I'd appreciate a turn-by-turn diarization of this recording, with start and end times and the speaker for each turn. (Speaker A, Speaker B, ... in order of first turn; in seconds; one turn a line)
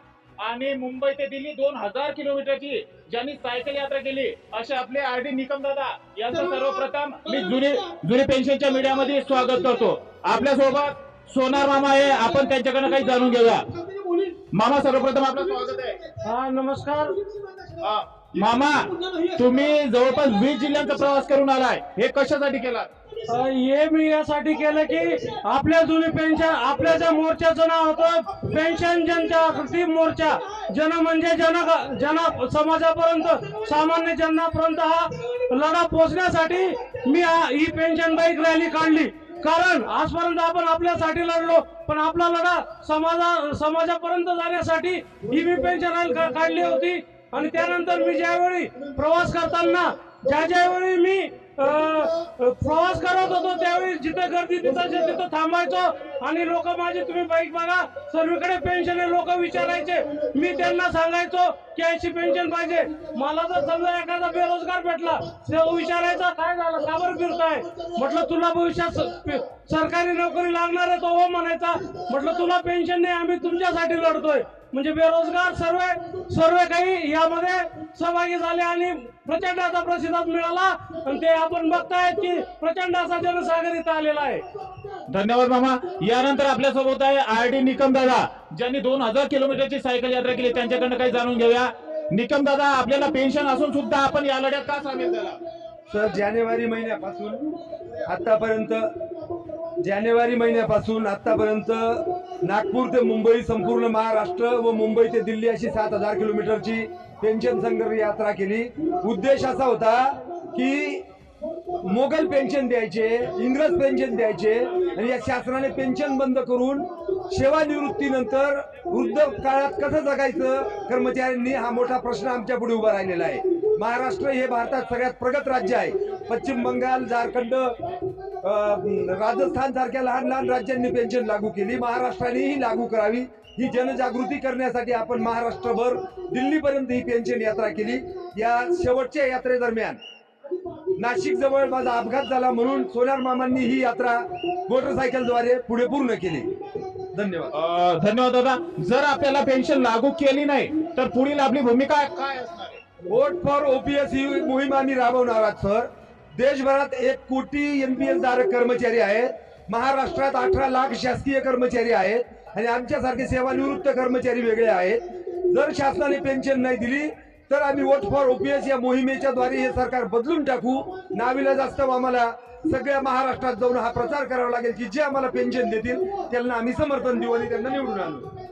Speaker A: 0.4-13.7
Speaker A: 14.3-16.0
Speaker B: 16.2-17.2
Speaker A: 17.8-22.9
Speaker B: 23.3-84.4
Speaker A: 85.1-95.4
Speaker C: 95.9-97.4
Speaker C: 98.0-98.9
Speaker C: 99.8-111.0
Speaker C: 111.8-127.8
Speaker C: 128.4-140.0
Speaker C: 140.9-146.5
Speaker C: 147.1-147.5
Speaker A: 147.5-152.8
Speaker C: 153.1-178.3